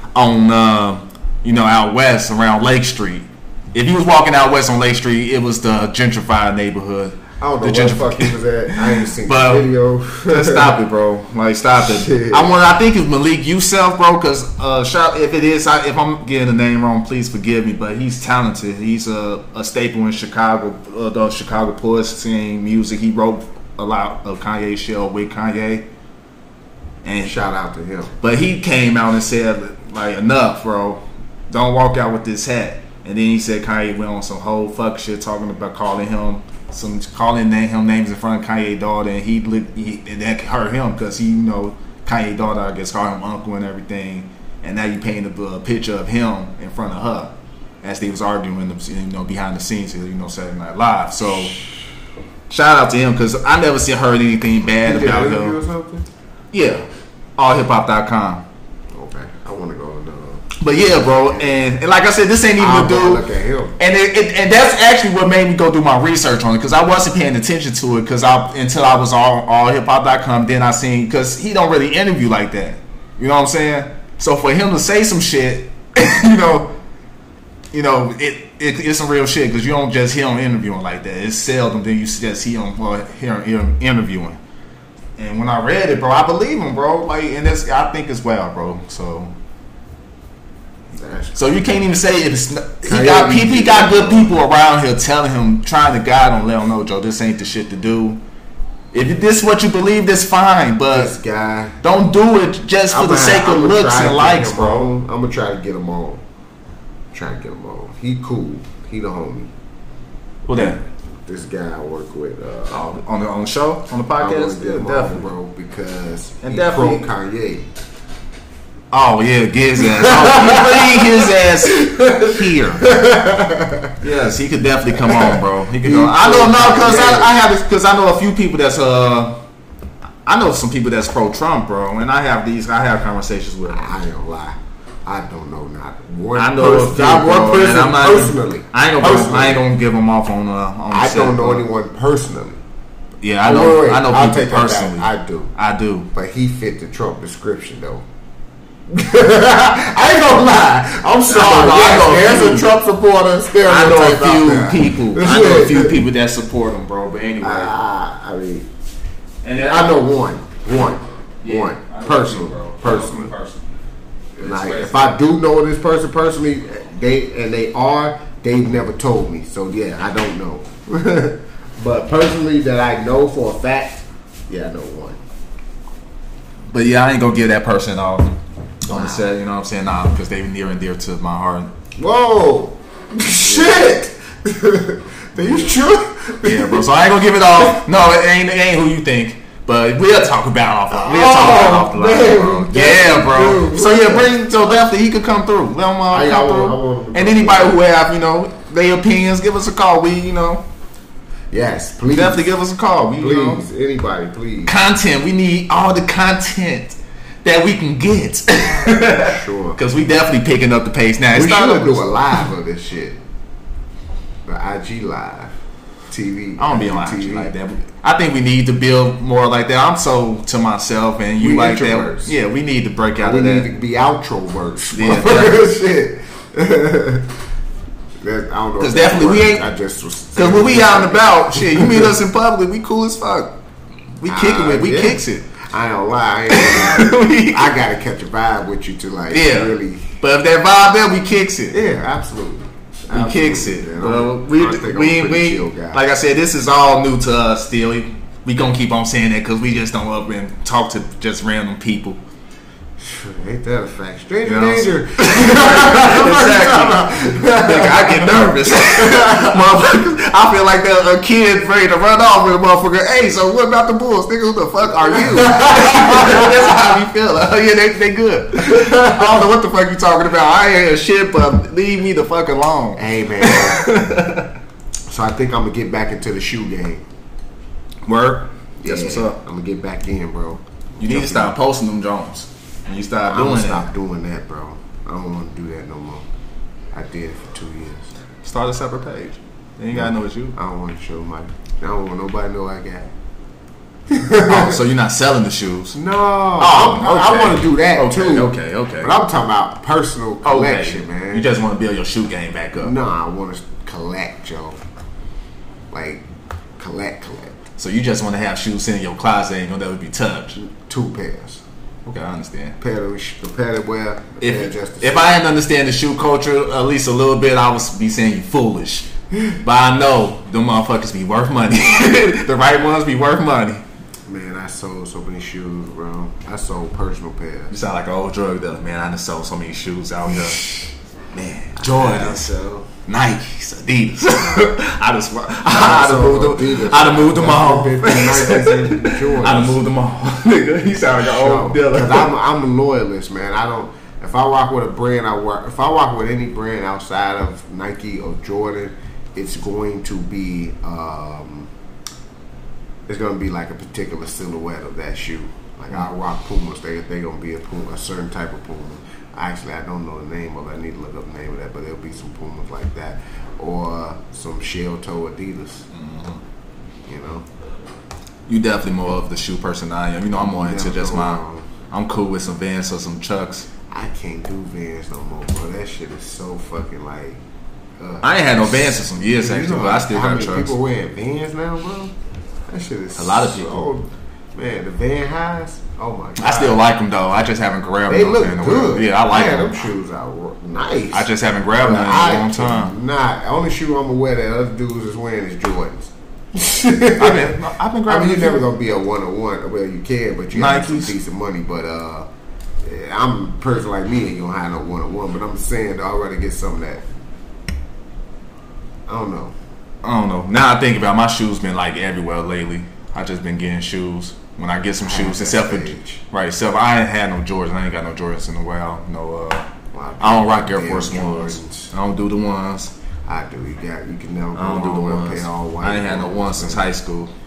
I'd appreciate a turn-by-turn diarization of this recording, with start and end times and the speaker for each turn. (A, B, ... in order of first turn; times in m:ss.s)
0:00.2-0:09.7 A
0:07.4-0:10.8 B
0:10.3-0:25.9 A
0:11.8-0:12.5 B
0:27.0-0:27.3 A
0:27.2-0:28.2 B
0:28.2-0:51.6 A
0:52.5-0:55.6 A
0:54.8-0:56.1 B
0:56.5-0:56.9 A
0:57.4-0:58.4 A
0:58.9-1:01.5 B
1:00.6-1:03.2 A
1:02.6-1:03.8 B
1:03.8-1:16.7 A
1:17.7-1:24.4 A
1:25.2-1:29.3 A
1:30.9-1:31.7 B
1:31.4-1:38.2 A
1:32.8-1:34.4 B
1:38.9-1:41.1 A
1:40.9-1:41.8 B
1:41.8-1:44.9 A
1:42.9-1:46.2 B
1:47.1-1:49.5 B
1:50.5-1:50.8 A
1:50.5-1:52.9 B
1:52.7-1:55.3 A
1:54.2-1:57.7 B
1:56.4-1:57.1 A
1:58.9-2:02.9 A
1:59.8-2:04.0 B
2:04.0-2:09.4 A
2:05.0-2:07.4 B
2:10.2-2:13.9 A
2:13.7-2:19.6 B
2:16.4-2:21.6 A
2:20.9-2:22.6 B
2:23.2-2:26.1 A
2:23.4-2:25.5 B
2:26.1-2:28.0 B
2:28.9-2:36.0 B
2:31.3-2:32.7 A
2:33.6-2:37.7 A
2:37.4-2:38.7 B
2:39.4-2:40.0 A
2:39.6-2:43.3 B
2:41.4-2:43.7 A
2:44.4-2:55.2 B
2:44.4-2:45.1 A
2:56.7-2:58.3 A
2:58.9-3:01.7 A
2:58.9-2:59.2 B
3:02.0-3:06.9 B
3:03.4-3:03.7 A
3:05.4-3:05.8 A
3:06.4-3:20.6 A
3:10.9-3:14.3 B
3:16.1-3:17.8 B
3:21.5-3:22.5 B
3:22.1-3:23.6 A
3:23.2-3:24.8 B
3:24.7-3:32.4 A
3:28.6-3:29.8 B
3:31.3-3:33.2 B
3:34.5-3:35.6 B
3:36.1-3:37.5 B
3:36.6-3:43.7 A
3:41.4-3:42.4 B
3:43.2-3:47.3 B
3:44.9-3:45.7 A
3:48.2-3:52.1 B
3:48.8-3:49.7 A
3:50.4-3:53.6 A
3:54.2-3:55.5 A
3:54.3-4:00.2 B
3:56.5-3:57.8 A
3:59.3-4:01.8 A
4:01.7-4:06.0 B
4:03.1-4:12.2 A
4:13.0-4:19.8 B
4:14.4-4:34.5 A
4:25.1-4:26.5 B
4:28.7-4:29.2 B
4:33.0-4:33.8 B
4:35.1-4:37.0 B
4:38.0-4:39.4 A
4:38.8-4:41.6 B
4:41.0-4:43.9 A
4:43.3-4:46.2 B
4:46.9-4:48.1 B
4:48.4-4:50.6 A
4:49.9-4:53.1 B
4:54.1-4:54.8 B
4:54.4-4:56.0 A
4:55.9-5:01.5 B
4:56.6-4:59.1 A
5:00.4-5:02.9 A
5:02.8-5:04.8 B
5:05.9-5:06.2 B
5:06.8-5:07.6 B
5:07.8-5:10.6 A
5:10.6-5:11.6 B
5:12.1-5:12.8 A
5:12.8-5:15.4 B
5:14.4-5:23.8 A
5:24.3-5:27.7 B
5:27.7-5:30.6 A
5:31.3-5:42.3 A
5:31.8-5:32.9 B
5:34.4-5:34.7 B
5:35.7-5:39.8 B
5:41.2-5:51.7 B
5:53.1-6:05.9 B
6:05.9-6:06.4 A
6:07.1-6:07.5 B
6:08.5-6:13.7 A
6:10.4-6:11.7 B
6:13.9-6:17.4 B
6:18.0-6:22.1 B
6:18.2-6:20.8 A
6:22.7-6:26.8 B
6:23.2-6:23.9 A
6:26.4-6:29.8 A
6:28.1-6:42.3 B
6:31.1-6:32.9 A
6:37.2-6:38.8 A
6:40.5-6:41.1 A
6:42.8-6:47.1 B
6:49.1-6:49.6 B
6:50.0-6:59.7 A
6:55.0-6:56.2 B
6:59.9-7:01.9 B
7:00.2-7:02.9 A
7:03.3-7:06.9 B
7:04.6-7:07.3 A